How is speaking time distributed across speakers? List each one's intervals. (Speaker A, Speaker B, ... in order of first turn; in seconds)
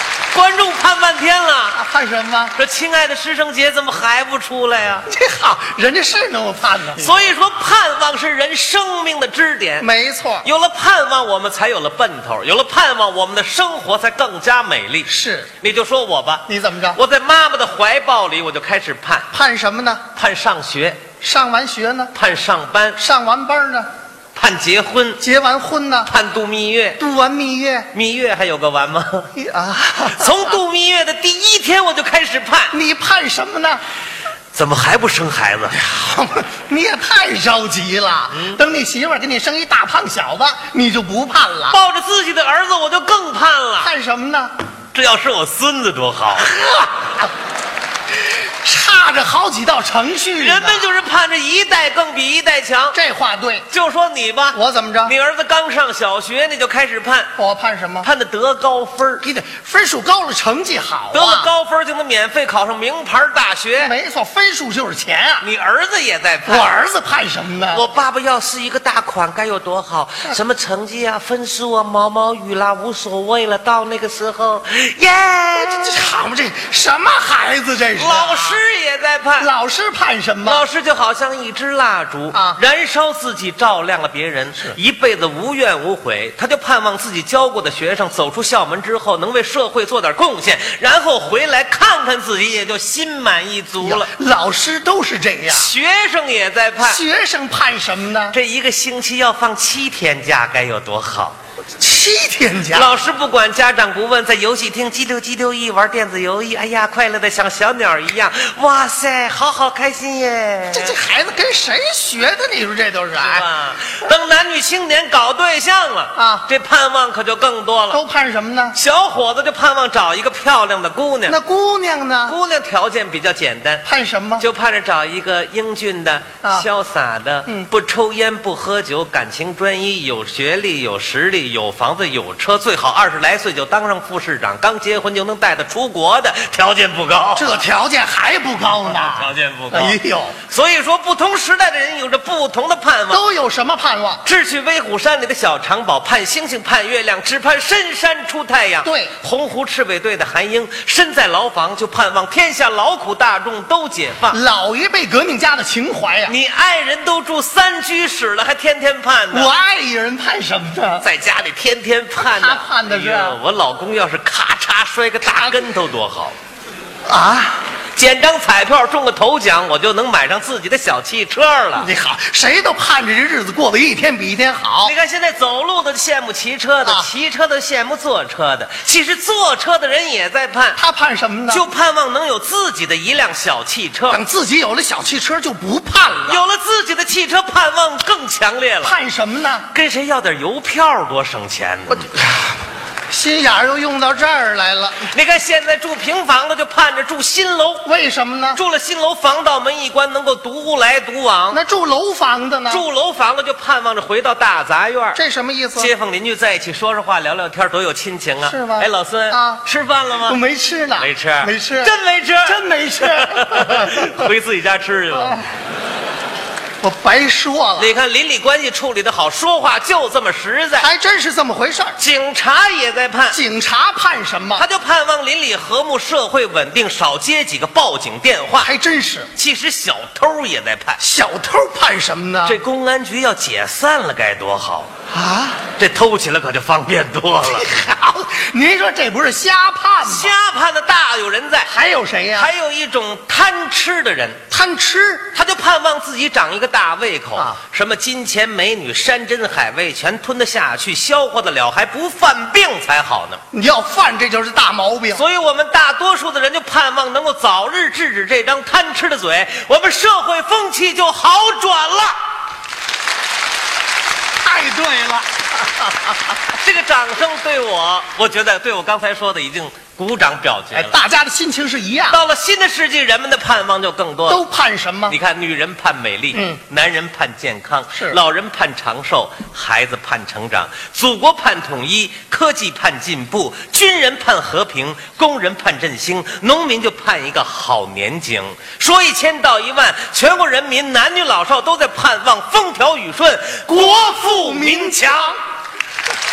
Speaker A: 0.3-1.8, 2.5-5.1, 7.0-9.9, 10.4-15.1, 15.6-19.3, 20.1-21.0, 22.1-23.0, 24.3-25.2, 26.1-27.0, 27.9-29.3, 30.0-32.7, 34.5-35.8, 41.7-43.9, 44.9-46.5, 50.4-53.0, 53.7-57.3, 58.0-59.2, 61.1-63.9, 65.4-66.7, 67.7-76.0, 78.0-79.5, 80.4-94.1, 95.5-97.0, 98.3-101.3, 102.7-111.0, 113.2-118.0, 118.7-121.4, 122.3-123.8, 124.4-137.6, 138.8-143.2, 144.2-154.4, 156.3-159.5, 161.0-166.3, 167.9-171.9, 174.8-180.8, 181.5-184.2, 186.2-189.0, 189.7-192.1, 195.0-197.9, 198.5-201.6, 202.7-205.2, 205.8-210.4, 211.0-215.4, 217.8-220.9, 222.0-223.4, 224.6-228.7, 229.3-231.0, 232.4-234.9, 235.8-237.7, 240.0-241.7, 242.3-244.4, 245.3-253.4, 255.1-262.2, 266.6-271.0, 272.1-274.4, 275.1-295.4
Speaker B: 1.7-2.5, 5.1-7.1, 9.8-10.5, 15.1-15.5, 16.5-17.0, 19.3-20.0, 21.2-22.1, 23.0-23.9, 25.2-26.1, 27.0-27.9, 29.3-30.6, 32.7-33.8, 35.7-41.8, 43.8-44.5, 46.5-47.3, 48.3-50.9, 52.9-53.6, 54.5-55.1, 57.4-58.1, 59.2-61.5, 63.8-65.4, 66.5-67.8, 75.5-78.6, 79.4-80.6, 82.3-82.6, 93.8-95.7, 96.8-98.3, 101.8-102.9, 110.7-113.5, 116.1-116.5, 117.9-118.8, 121.3-122.4, 123.8-124.4, 137.3-140.3, 143.1-144.2, 148.8-149.1, 154.3-156.3, 159.3-161.1, 162.2-163.4, 165.2-165.6, 167.1-167.6, 171.8-174.9, 180.8-181.6, 184.1-186.4, 188.8-189.7, 191.9-192.5, 193.1-195.1, 197.8-198.6, 201.5-202.8, 205.1-205.9, 208.4-209.7, 210.2-211.9, 212.4-214.3, 215.1-215.4, 216.8-217.9, 220.8-222.0, 223.3-224.6, 228.6-229.3, 231.0-232.6, 235.1-235.6, 237.5-240.3, 241.7-242.5, 244.5-245.3, 253.5-255.2, 264.4-266.1, 270.7-272.2, 274.3-275.1, 276.3-276.6, 277.9-278.2, 293.7-295.4